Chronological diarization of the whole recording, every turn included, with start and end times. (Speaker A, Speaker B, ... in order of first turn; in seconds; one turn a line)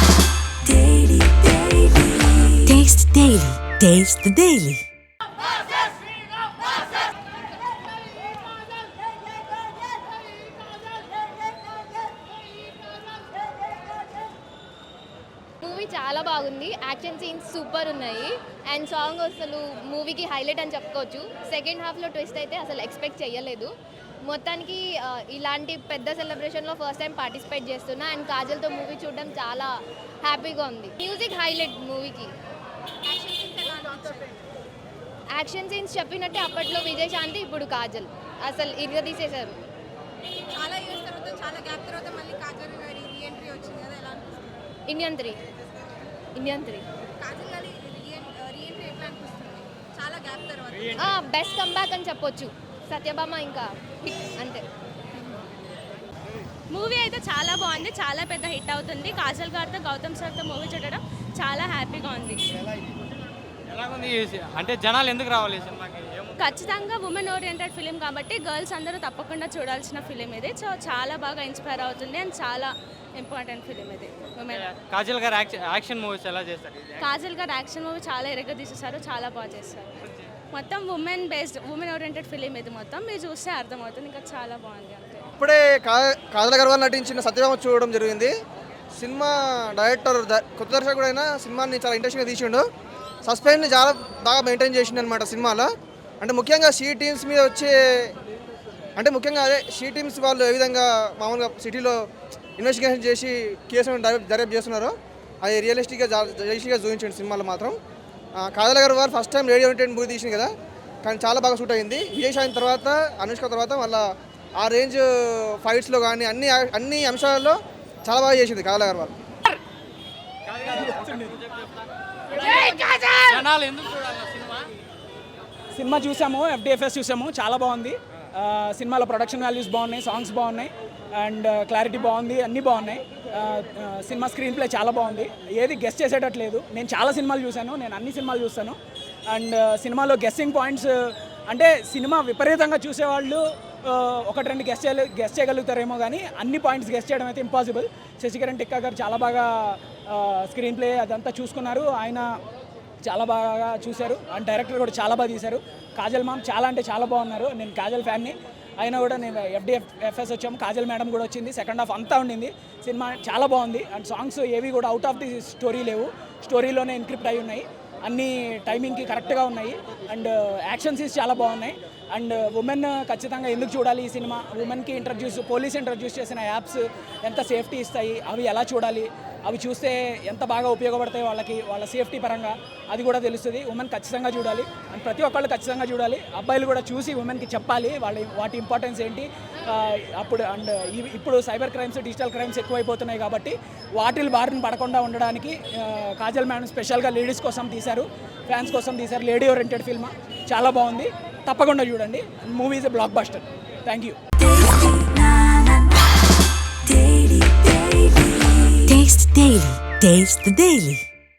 Speaker A: 0.7-2.0
Speaker A: 2.6-4.8
Speaker B: 15.6-23.7
Speaker B: 24.3-29.7
Speaker B: 30.2-32.3
Speaker C: 33.0-34.3
Speaker B: 35.3-39.5
Speaker C: 40.5-44.6
Speaker B: 44.9-45.4
Speaker B: 46.4-46.8
Speaker C: 47.2-51.1
Speaker B: 51.0-54.6
Speaker D: 56.7-62.5
Speaker E: 63.8-66.1
Speaker D: 66.4-74.7
Speaker E: 74.8-76.8
Speaker D: 77.0-79.9
Speaker D: 80.5-85.3
Speaker F: 85.4-88.3
Speaker F: 89.0-92.6
Speaker F: 93.2-95.7
Speaker F: 96.2-98.1
Speaker F: 99.0-101.9
Speaker F: 102.6-107.8
Speaker F: 108.4-110.5
Speaker F: 111.0-114.0
Speaker F: 114.6-119.1
Speaker E: 123.4-123.9
Speaker G: 125.7-152.3
Speaker G: 153.0-204.2
Speaker A: 204.5-205.8
Speaker A: 206.9-208.0
Speaker A: 208.8-211.0